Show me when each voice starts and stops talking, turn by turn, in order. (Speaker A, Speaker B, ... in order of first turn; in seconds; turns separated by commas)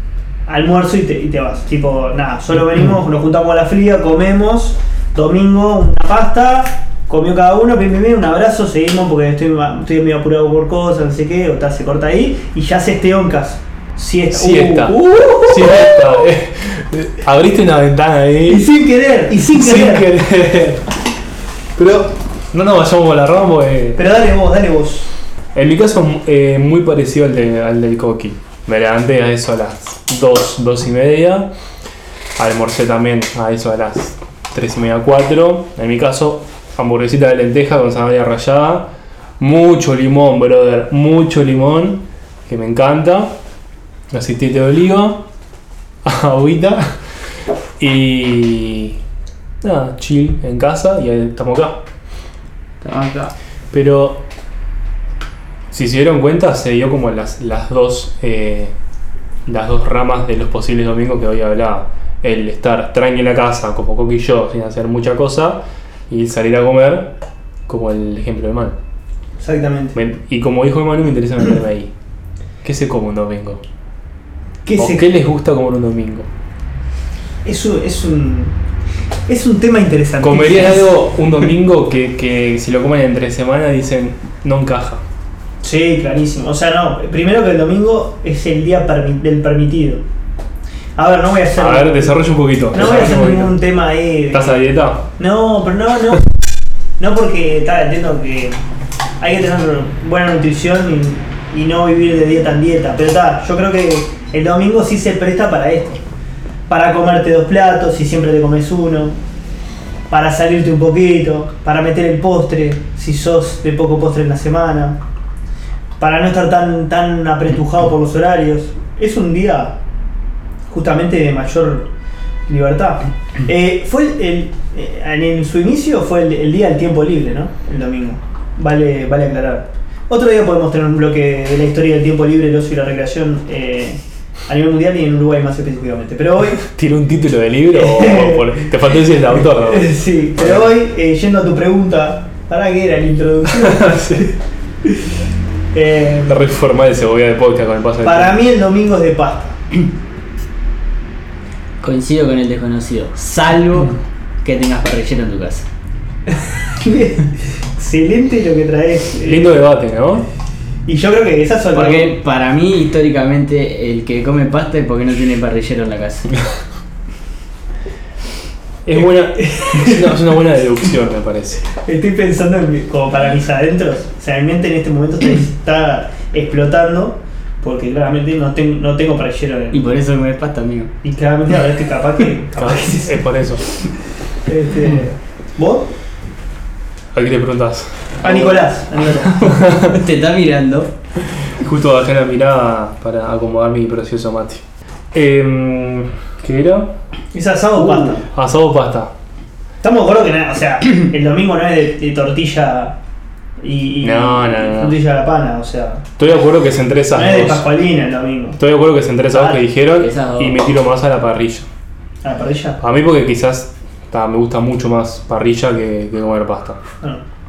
Speaker A: 0.5-16.0, Speaker B: 14.3-18.7, Speaker A: 18.4-20.1, Speaker B: 19.3-20.9, Speaker B: 21.8-24.0, Speaker A: 23.9-25.1, Speaker B: 25.5-31.5, Speaker B: 32.4-43.4, Speaker B: 44.1-45.2, Speaker B: 46.0-46.9, Speaker B: 47.8-49.0, Speaker B: 49.6-51.8, Speaker C: 52.8-53.3, Speaker B: 53.7-54.2, Speaker B: 55.7-58.7, Speaker B: 59.5-67.1, Speaker B: 67.7-68.8, Speaker A: 69.4-70.0, Speaker B: 69.9-71.9, Speaker B: 72.6-73.6, Speaker A: 74.6-75.1, Speaker B: 74.8-76.3, Speaker A: 77.4-78.5, Speaker A: 79.3-80.9, Speaker B: 80.2-85.0, Speaker A: 85.6-90.0, Speaker A: 91.0-94.6, Speaker B: 91.6-93.6, Speaker B: 94.3-95.1, Speaker A: 95.2-96.3, Speaker A: 97.0-98.6, Speaker A: 99.2-106.0, Speaker A: 106.7-109.2, Speaker A: 110.1-115.0, Speaker A: 116.0-119.8, Speaker A: 120.7-121.9, Speaker A: 122.5-136.7, Speaker B: 136.6-140.7, Speaker A: 137.7-138.7, Speaker A: 139.4-144.3, Speaker B: 143.5-144.3, Speaker A: 145.7-146.4, Speaker B: 146.3-148.4, Speaker A: 148.0-149.6, Speaker C: 151.8-155.7, Speaker A: 156.3-159.6, Speaker B: 159.2-160.2, Speaker A: 160.8-162.2, Speaker C: 161.7-166.3, Speaker B: 168.8-171.6, Speaker A: 168.9-170.2, Speaker A: 171.8-179.9, Speaker C: 179.7-180.9, Speaker A: 181.0-183.3, Speaker B: 182.6-183.7, Speaker A: 184.4-185.9, Speaker B: 187.1-188.0, Speaker A: 188.2-189.6, Speaker C: 188.2-188.6, Speaker B: 189.4-190.0, Speaker C: 189.8-190.9, Speaker B: 191.4-196.9, Speaker A: 197.3-198.2, Speaker B: 198.3-199.1, Speaker A: 199.8-202.9, Speaker A: 203.6-206.0, Speaker B: 204.0-205.0, Speaker B: 206.2-207.7, Speaker A: 207.1-208.6, Speaker B: 208.6-211.7, Speaker A: 209.3-209.6, Speaker C: 210.0-210.6, Speaker A: 212.2-212.8, Speaker B: 212.8-216.8